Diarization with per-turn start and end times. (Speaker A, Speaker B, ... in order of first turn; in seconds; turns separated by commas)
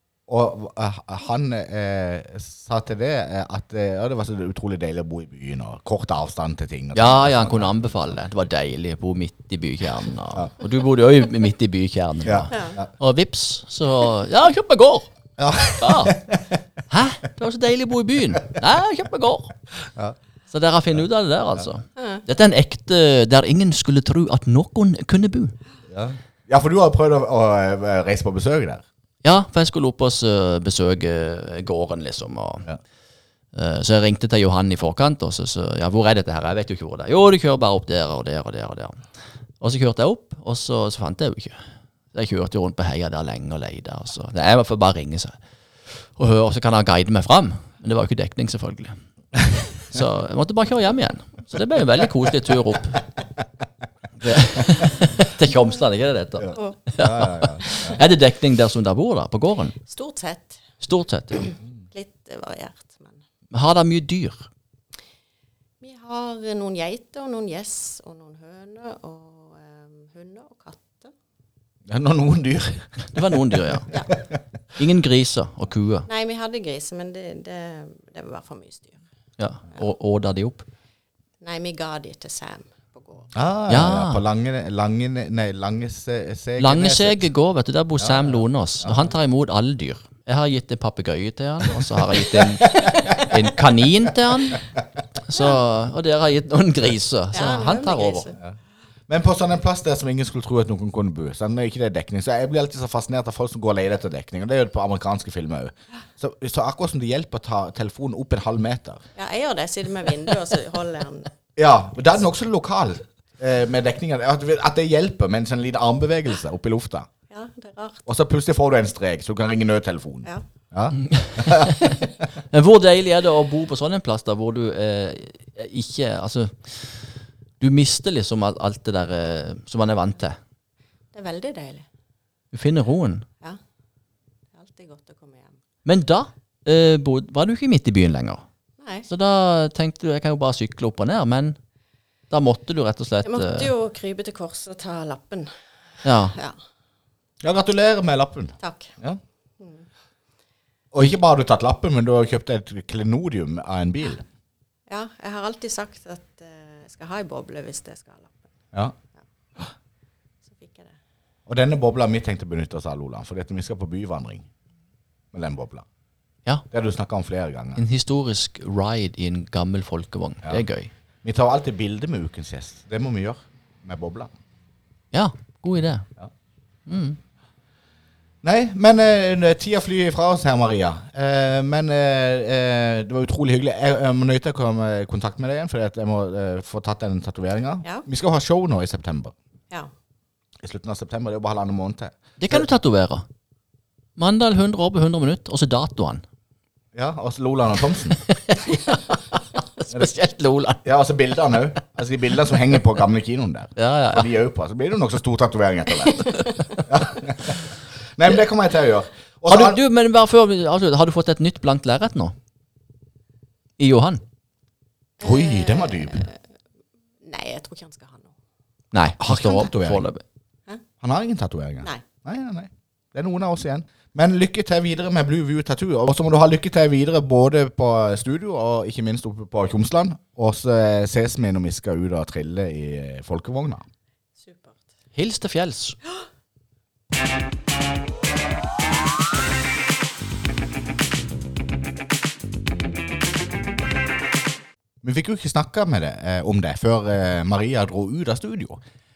Speaker A: 0.3-7.7, Speaker B: 6.9-15.1, Speaker A: 12.2-12.9, Speaker C: 12.5-12.8, Speaker A: 15.4-16.6, Speaker B: 15.8-16.2, Speaker B: 16.9-19.5, Speaker B: 20.5-25.6, Speaker C: 21.9-22.2, Speaker A: 25.9-28.8, Speaker B: 29.2-32.6, Speaker B: 33.5-39.0, Speaker B: 39.6-45.4, Speaker B: 46.2-49.0, Speaker B: 49.8-53.0, Speaker B: 54.2-59.8, Speaker A: 54.4-54.8, Speaker A: 56.4-58.0, Speaker C: 59.9-60.6, Speaker B: 60.8-61.5, Speaker C: 61.5-63.2, Speaker B: 63.5-64.5, Speaker C: 65.8-71.1, Speaker A: 71.9-73.3, Speaker B: 73.1-73.9, Speaker B: 74.8-76.1, Speaker C: 76.1-79.0, Speaker B: 79.4-80.7, Speaker C: 81.4-83.3, Speaker A: 83.3-87.2, Speaker B: 83.7-84.2, Speaker B: 86.6-94.6, Speaker A: 88.0-89.1, Speaker A: 91.8-93.2, Speaker B: 95.2-98.3, Speaker C: 97.3-98.4, Speaker A: 99.1-109.0, Speaker C: 109.2-111.3, Speaker A: 111.5-117.1, Speaker C: 117.3-118.0, Speaker A: 118.1-121.9, Speaker B: 121.0-122.0, Speaker B: 122.5-127.0, Speaker B: 127.6-130.4, Speaker C: 131.1-131.8, Speaker B: 132.5-133.2, Speaker C: 134.5-135.6, Speaker B: 135.8-138.4, Speaker C: 138.8-139.1, Speaker B: 139.1-141.6, Speaker B: 142.3-143.7, Speaker C: 143.2-145.5, Speaker B: 146.0-146.3, Speaker A: 147.4-149.2, Speaker C: 148.6-148.9, Speaker C: 149.6-149.8, Speaker A: 150.9-154.2, Speaker C: 154.9-158.4, Speaker C: 160.4-160.9, Speaker A: 161.5-164.4, Speaker A: 165.3-165.8, Speaker A: 166.7-167.8, Speaker B: 167.8-170.9, Speaker A: 171.2-174.3, Speaker B: 175.1-176.1, Speaker B: 176.9-177.2, Speaker A: 178.4-189.3, Speaker A: 190.6-192.7, Speaker B: 192.4-193.2, Speaker B: 194.2-196.2, Speaker A: 196.9-198.2, Speaker B: 198.3-200.8, Speaker A: 200.8-209.8, Speaker B: 203.8-204.3, Speaker B: 209.5-212.3, Speaker B: 213.8-214.2, Speaker C: 215.2-216.3, Speaker A: 215.2-216.2, Speaker C: 217.2-218.3, Speaker B: 218.9-220.2, Speaker A: 219.2-220.0, Speaker A: 221.0-233.8, Speaker C: 234.4-234.8, Speaker B: 235.1-236.0, Speaker A: 245.0-248.8